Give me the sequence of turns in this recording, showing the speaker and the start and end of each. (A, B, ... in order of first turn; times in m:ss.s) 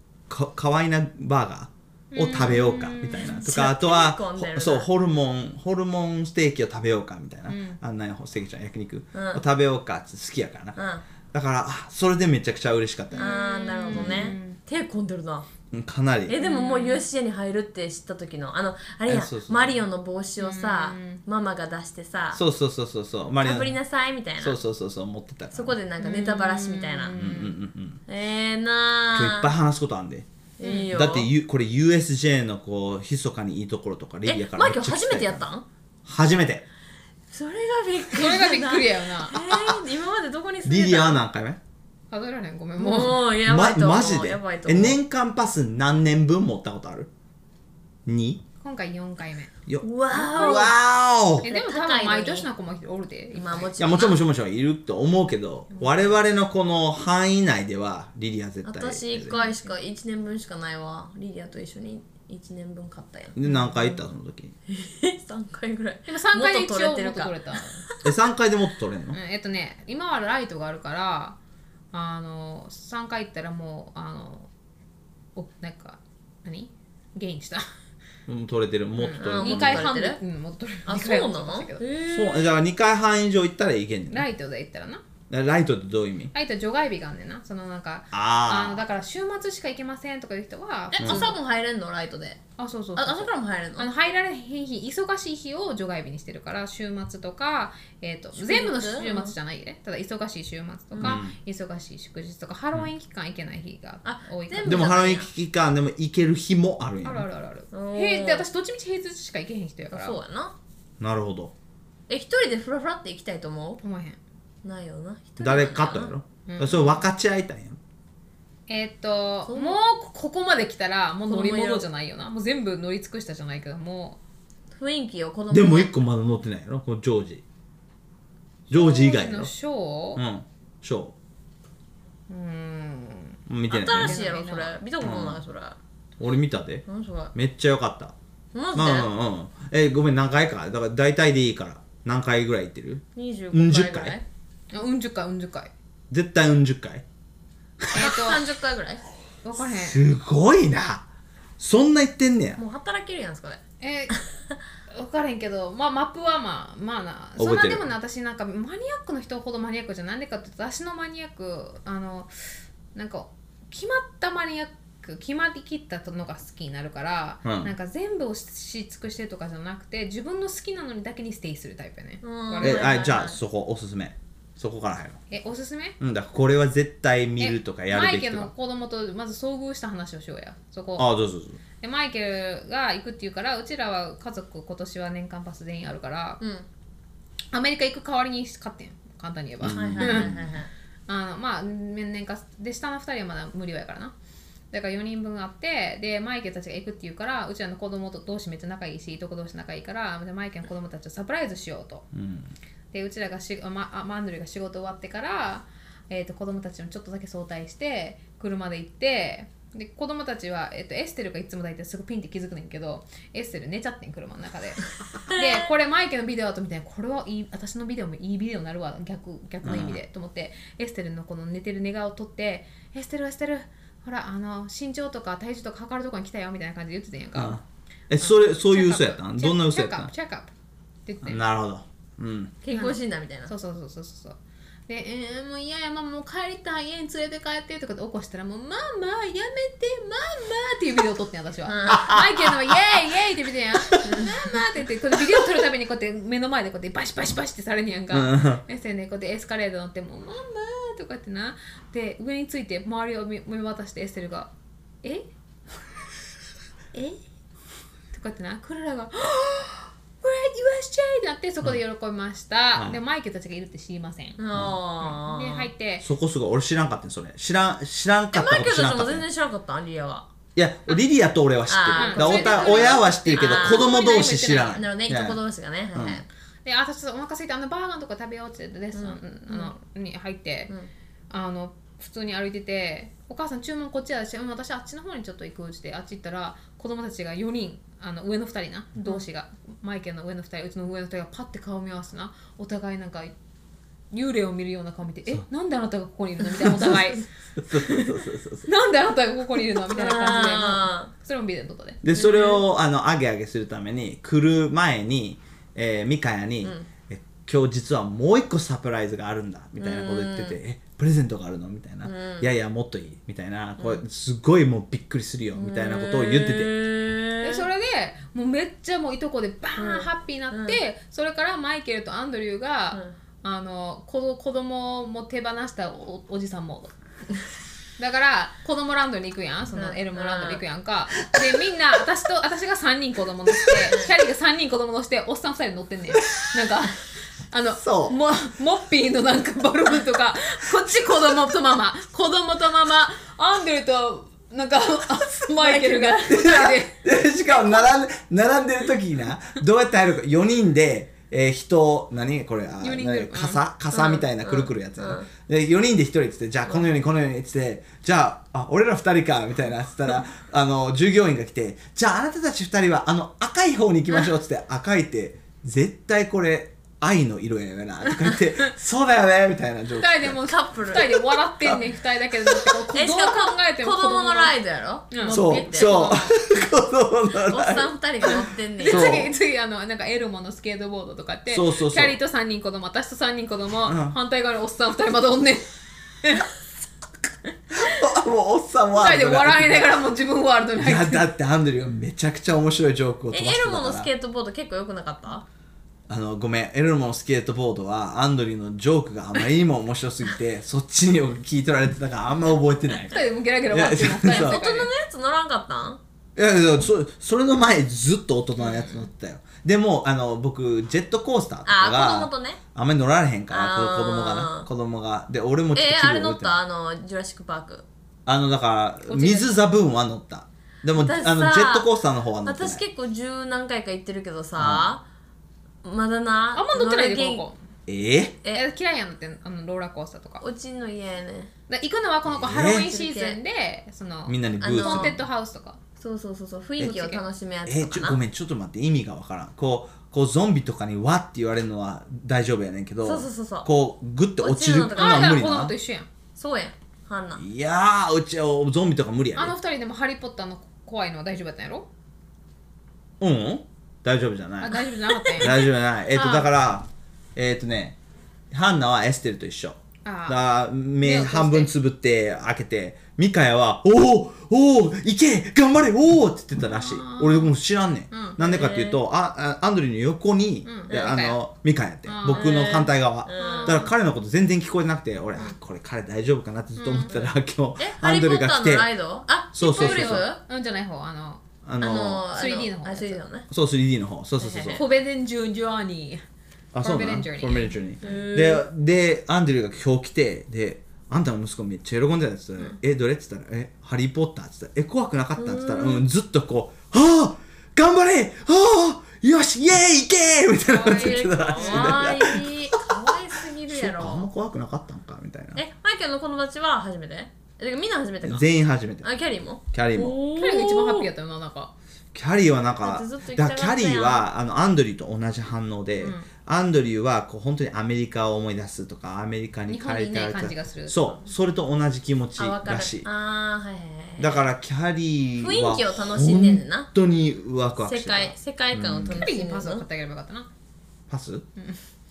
0:00.3-0:10.8 A
0:02.1-0:03.4 B
0:03.4-0:04.9 C
0:07.5-0:07.8 B
0:09.1-0:09.4 C
0:10.8-0:11.0 C
0:11.3-0:13.3 A
0:13.1-0:14.6 B
0:13.2-0:15.5 C
0:13.9-0:14.4 A
0:15.7-0:16.4 A
0:16.3-0:22.4 C
0:16.4-0:17.0 B
0:19.1-0:19.8 A
0:20.4-0:21.2 B
0:22.3-0:23.8 A
0:23.4-0:24.6 C
0:24.4-0:25.8 A
0:25.5-0:27.2 C
0:26.0-0:27.6 B
0:27.1-0:28.0 A
0:28.1-0:29.5 C
0:29.1-0:30.3 A
0:30.6-0:31.3 C
0:30.6-0:30.9 B
0:30.9-0:35.4 A
0:34.2-0:35.7 C
0:36.1-0:36.7 A
0:37.3-0:41.2 C
0:38.1-0:39.4 B
0:39.5-0:39.8 A
0:40.6-0:41.6 A
0:42.1-0:43.2 B
0:42.8-0:45.0 C
0:43.4-0:47.1 A
0:48.1-0:48.4 A
0:48.6-0:49.5 B
0:49.7-0:51.4 A
0:49.8-0:50.7 C
0:50.3-0:50.7 B
0:51.4-0:53.9 B
0:51.4-0:52.5 C
0:53.3-0:54.2 C
0:53.8-0:59.3 A
0:55.7-0:56.0 B
0:58.6-1:04.0 C
0:59.3-0:59.7 B
1:03.4-1:04.6 A
1:04.7-1:08.0 C
1:06.1-1:07.8 B
1:08.0-1:09.2 A
1:09.1-1:11.4 B
1:11.9-1:14.5 B
1:15.4-1:17.7 B
1:18.3-1:19.9 A
1:19.0-1:20.2 C
1:19.4-1:21.8 B
1:20.9-1:22.5 C
1:22.1-1:24.3 A
1:24.1-1:25.0 B
1:25.3-1:26.3 A
1:26.3-1:31.4 B
1:28.1-1:28.8 A
1:30.9-1:32.4 C
1:31.0-1:31.3 A
1:32.6-1:44.9 B
1:33.0-1:33.9 C
1:38.4-1:39.3 C
1:41.0-1:41.4 A
1:44.0-1:45.3 C
1:44.6-1:47.3 A
1:47.0-1:50.2 B
1:47.7-1:48.4 C
1:49.9-1:50.5 C
1:51.0-1:51.5 A
1:52.1-1:53.8 C
1:53.8-1:54.2 B
1:54.6-1:56.1 C
1:55.4-1:57.8 A
1:56.5-1:57.0 B
1:58.7-2:04.2 B
1:59.5-1:59.8 C
2:01.3-2:01.9 C
2:04.8-2:05.9 C
2:05.5-2:07.4 A
2:08.7-2:09.5 A
2:08.7-2:10.2 B
2:10.2-2:11.2 A
2:12.3-2:14.8 B
2:13.5-2:14.2 A
2:13.7-2:15.8 C
2:15.0-2:15.4 A
2:16.2-2:18.2 A
2:16.9-2:17.3 C
2:18.5-2:19.1 C
2:18.7-2:24.2 A
2:23.2-2:24.2 C
2:24.7-2:25.7 B
2:26.1-2:27.0 A
2:27.9-2:28.5 B
2:27.9-2:29.0 C
2:29.4-2:30.0 B
2:29.6-2:31.0 A
2:31.6-2:32.6 A
2:32.6-2:34.2 C
2:33.8-2:34.2 B
2:34.9-2:42.3 B
2:37.4-2:37.9 A
2:43.0-2:53.0 B
2:47.4-2:47.7 A
2:52.2-2:53.4 C
2:52.6-2:55.2 A
2:55.3-2:56.0 B
2:56.0-2:58.5 A
2:57.4-3:01.1 B
3:01.0-3:01.6 A
3:01.8-3:06.4 B
3:06.4-3:06.7 C
3:07.5-3:10.3 B
3:09.6-3:10.5 A
3:09.6-3:10.7 C
3:11.1-3:14.1 B
3:14.7-3:22.1 B
3:22.1-3:22.5 A
3:22.9-3:47.6 B
3:39.6-3:40.0 A
3:47.4-3:50.1 A
3:48.2-3:50.5 B
3:51.1-3:51.4 B
3:51.2-3:52.6 A
3:52.6-3:53.5 C
3:53.5-3:54.4 B
3:54.9-4:14.5 B
4:01.7-4:02.2 C
4:01.9-4:02.3 A
4:03.9-4:04.3 A
4:04.2-4:04.5 C
4:08.1-4:08.6 A
4:18.1-4:24.4 B
4:22.8-4:23.0 A
4:24.4-4:25.7 C
4:25.0-4:26.1 B
4:26.0-4:29.2 A
4:28.3-4:30.3 C
4:30.6-4:35.4 A
4:31.7-4:36.3 C
4:32.0-4:34.7 B
4:35.9-4:36.2 A
4:36.6-4:40.7 B
4:38.9-4:39.8 C
4:41.3-4:53.3 B
4:54.1-5:02.0 B
4:56.6-4:57.0 A
4:57.6-4:58.7 A
4:59.9-5:01.1 C
5:02.0-5:16.8 A
5:02.2-5:02.6 C
5:06.6-5:06.9 C
5:09.8-5:10.6 C
5:12.0-5:12.5 C
5:15.6-5:17.7 C
5:17.4-5:26.9 B
5:19.8-5:20.8 C
5:28.0-5:47.0 B
5:29.7-5:30.6 C
5:37.8-5:38.2 A
5:45.6-5:46.2 C
5:46.3-6:10.4 A
5:52.8-5:53.6 B
5:53.9-5:55.3 C
6:08.2-6:08.7 B
6:10.0-6:14.6 B
6:10.4-6:11.3 C
6:12.9-6:16.1 C
6:15.1-6:16.4 B
6:15.3-6:19.4 A
6:17.5-6:19.2 C
6:18.8-6:25.7 B
6:21.5-6:22.2 A
6:23.9-6:24.2 A
6:26.2-6:26.5 B
6:27.7-6:29.9 A
6:29.0-6:31.3 B
6:30.8-6:34.1 A
6:33.3-6:35.4 C
6:36.1-6:44.6 A
6:43.1-6:44.9 B
6:44.2-6:46.0 C
6:46.4-6:56.6 A
6:48.6-6:49.0 B
6:51.6-6:52.6 C
6:53.5-6:54.7 C
6:55.7-6:57.8 C
6:58.3-7:02.8 A
6:59.1-6:59.6 B
7:01.0-7:01.9 C
7:02.4-7:05.0 C
7:04.6-7:04.9 A
7:05.8-7:07.5 C
7:06.5-7:07.6 B
7:07.9-7:08.4 A
7:08.5-7:10.4 B
7:10.4-7:11.5 C
7:11.7-7:15.8 B
7:12.3-7:12.9 A
7:12.6-7:13.4 C
7:14.3-7:15.2 A
7:14.6-7:15.2 C
7:16.0-7:18.2 C
7:16.9-7:17.2 B
7:17.7-7:25.7 A
7:23.0-7:23.7 C
7:24.4-7:25.4 C
7:25.0-7:26.1 B
7:26.4-7:27.4 C
7:27.4-7:29.6 A
7:29.4-7:31.9 B
7:33.2-7:34.8 A
7:34.6-7:36.5 B
7:34.8-7:35.5 C
7:35.4-7:38.0 A
7:38.5-7:58.9 A
7:40.0-7:40.4 B
7:41.0-7:41.7 B
7:46.6-7:47.5 B
7:48.1-7:48.4 B
7:48.4-7:49.0 C
7:50.6-7:51.4 B
7:52.1-7:52.8 B
7:52.3-7:53.9 C
7:53.4-7:53.9 B
7:56.8-7:57.3 B
7:57.8-8:00.4 C
7:59.5-8:00.2 A
7:59.6-8:01.4 B
8:01.6-8:02.2 A
8:01.8-8:03.5 C
8:02.3-8:03.2 B
8:03.5-8:04.8 A
8:04.4-8:04.8 C
8:04.7-8:06.2 B
8:06.7-8:22.9 A
8:06.8-8:07.8 B
8:08.0-8:08.6 C
8:15.4-8:16.0 C
8:20.7-8:22.1 B
8:20.7-8:24.3 C
8:23.7-8:25.6 A
8:25.6-8:28.5 C
8:28.2-8:29.1 A
8:29.0-8:31.1 C
8:29.7-8:30.2 A
8:30.3-8:31.7 B
8:32.1-8:43.1 A
8:32.8-8:34.3 C
8:36.0-8:36.3 B
8:39.7-8:41.3 B
8:42.4-8:44.4 C
8:44.2-8:49.3 A
8:45.4-8:46.9 C
8:47.8-8:49.9 C
8:49.2-8:50.5 B
8:51.1-8:51.5 A